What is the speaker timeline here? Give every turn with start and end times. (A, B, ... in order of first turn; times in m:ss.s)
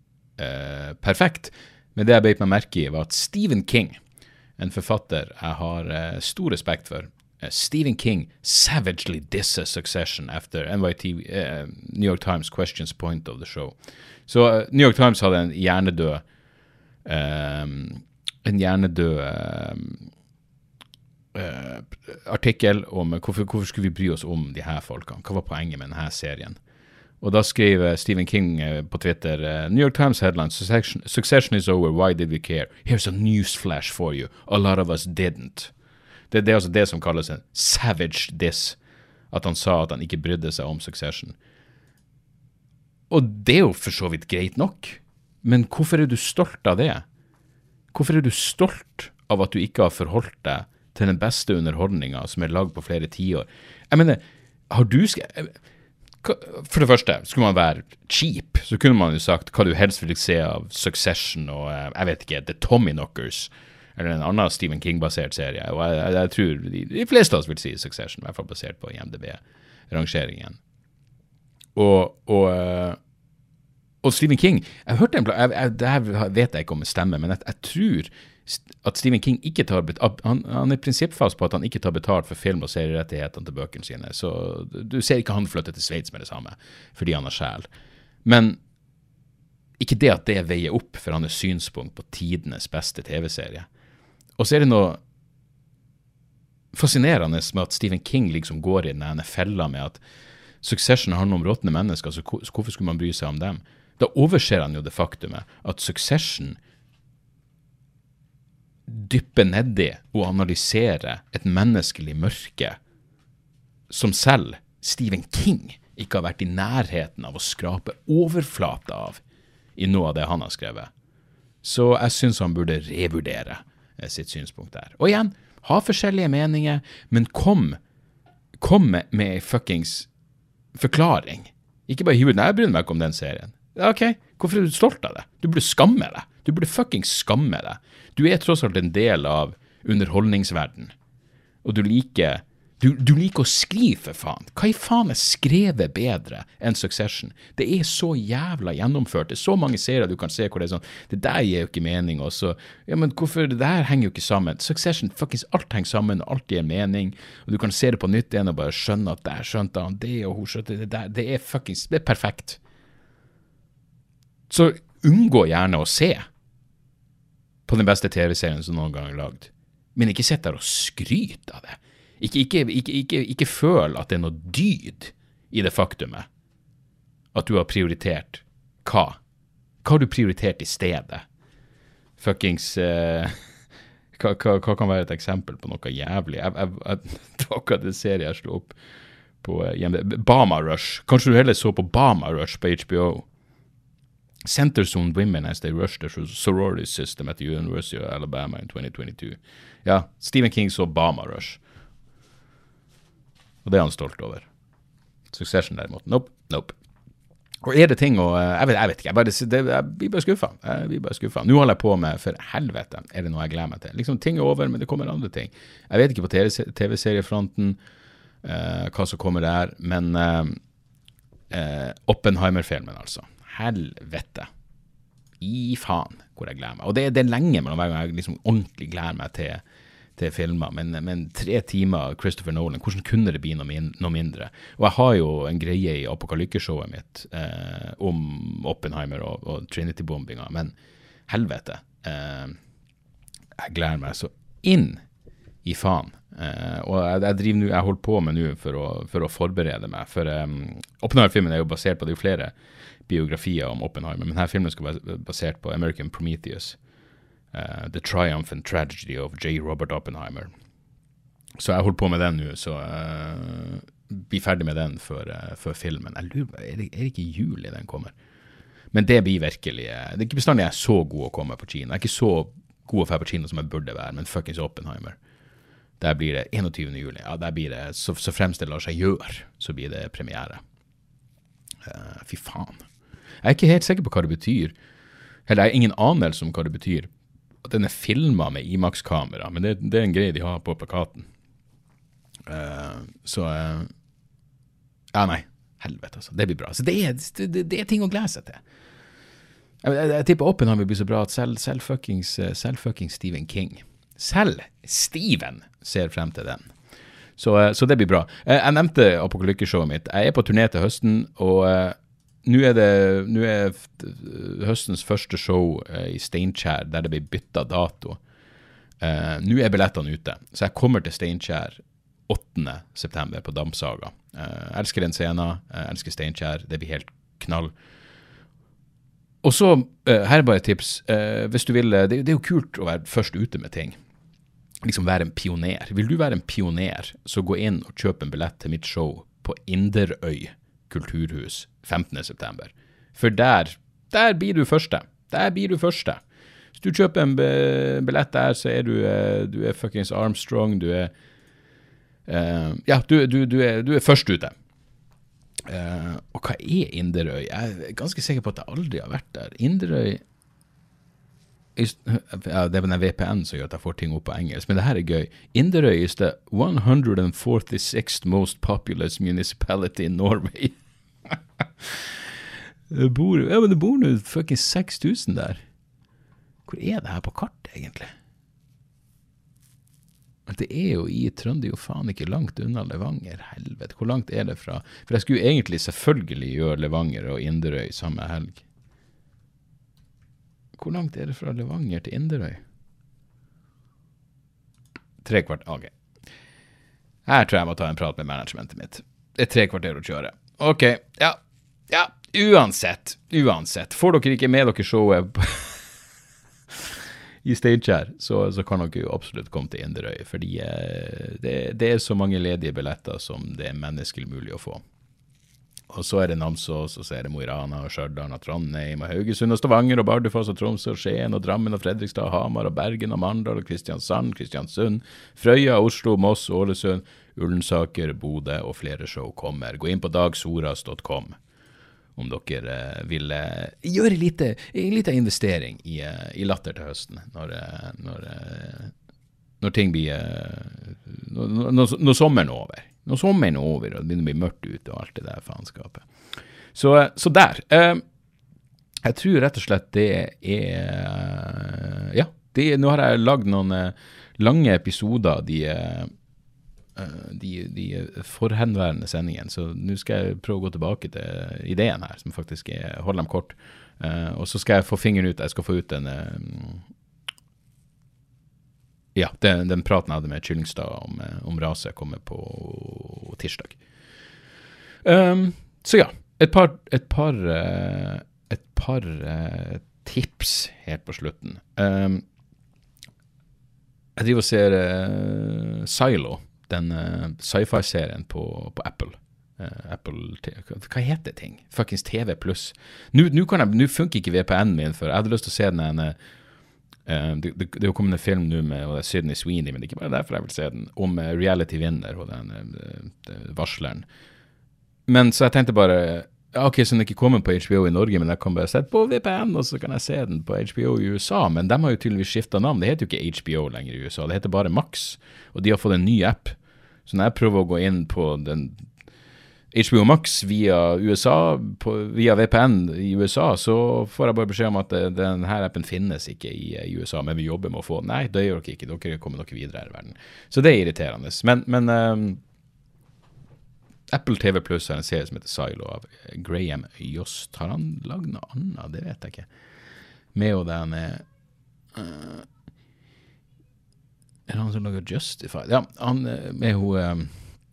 0:00.4-0:04.0 A
0:04.6-0:13.8 A
0:14.3-0:16.2 A
0:17.0-0:20.1 A
0:21.3-0:26.6 A
0:27.2-0:35.7 A
0:36.3-0:38.8 A
0:39.3-0:41.4 A
0:43.1-0:47.0 A
0:47.9-0:55.5 A
0:56.2-1:10.6 A
1:11.7-1:13.0 A
1:14.0-1:27.7 A
1:28.2-1:28.6 A
1:29.8-1:33.7 A
1:34.4-1:35.0 A
1:36.7-1:40.0 A
1:40.6-1:46.6 A
1:48.9-1:52.8 A
1:53.9-1:59.2 A
1:59.8-2:00.9 A
2:01.6-2:07.8 A
2:08.6-2:10.1 A
2:10.7-2:20.9 A
2:21.6-2:42.6 A
2:44.5-2:46.2 A
2:47.7-2:56.3 A
2:57.3-2:59.2 A
2:59.8-3:01.2 A
3:02.2-3:03.4 A
3:04.1-3:08.8 A
3:09.4-3:13.2 A
3:14.4-3:21.6 A
3:23.6-3:24.4 A
3:25.3-3:26.7 A
3:27.6-3:37.8 A
3:38.4-3:40.6 A
3:41.5-3:44.5 A
3:45.4-3:49.6 A
3:50.2-4:00.7 A
4:01.3-4:02.6 A
4:03.6-4:05.0 A
4:05.6-4:12.5 A
4:13.1-4:16.8 A
4:17.5-4:20.5 A
4:21.6-4:28.1 A
4:28.9-4:35.2 A
4:36.0-4:40.6 A
4:41.8-4:42.8 A
4:43.4-4:44.7 A
4:45.5-4:47.1 A
4:47.6-4:51.3 A
4:52.5-4:53.9 A
4:55.1-4:58.6 A
4:59.8-5:06.7 A
5:07.4-5:18.2 A
5:19.0-5:27.7 A
5:29.4-5:34.0 A
5:34.8-5:46.2 A
5:46.8-5:51.1 A
5:52.3-5:54.5 A
5:55.7-6:00.2 A
6:01.8-6:10.7 A
6:11.3-6:12.1 A
6:12.9-6:15.6 A
6:16.7-6:18.1 A
6:20.5-6:28.6 A
6:30.8-6:32.6 A
6:35.2-6:35.9 A
6:37.2-6:41.4 A
6:41.9-6:45.8 A
6:47.4-6:54.8 A
6:55.9-7:11.3 A
7:12.2-7:18.9 A
7:19.6-7:26.0 A
7:26.7-7:28.0 A
7:29.0-7:36.1 A
7:37.0-7:46.8 A
7:49.1-7:53.8 A
7:55.0-8:02.2 A
8:04.2-8:16.2 A
8:17.0-8:24.0 A
8:25.1-8:38.8 A
8:39.7-8:52.4 A
8:54.1-8:59.5 A
9:00.3-9:01.2 A
9:01.9-9:02.5 A
9:04.5-9:07.4 A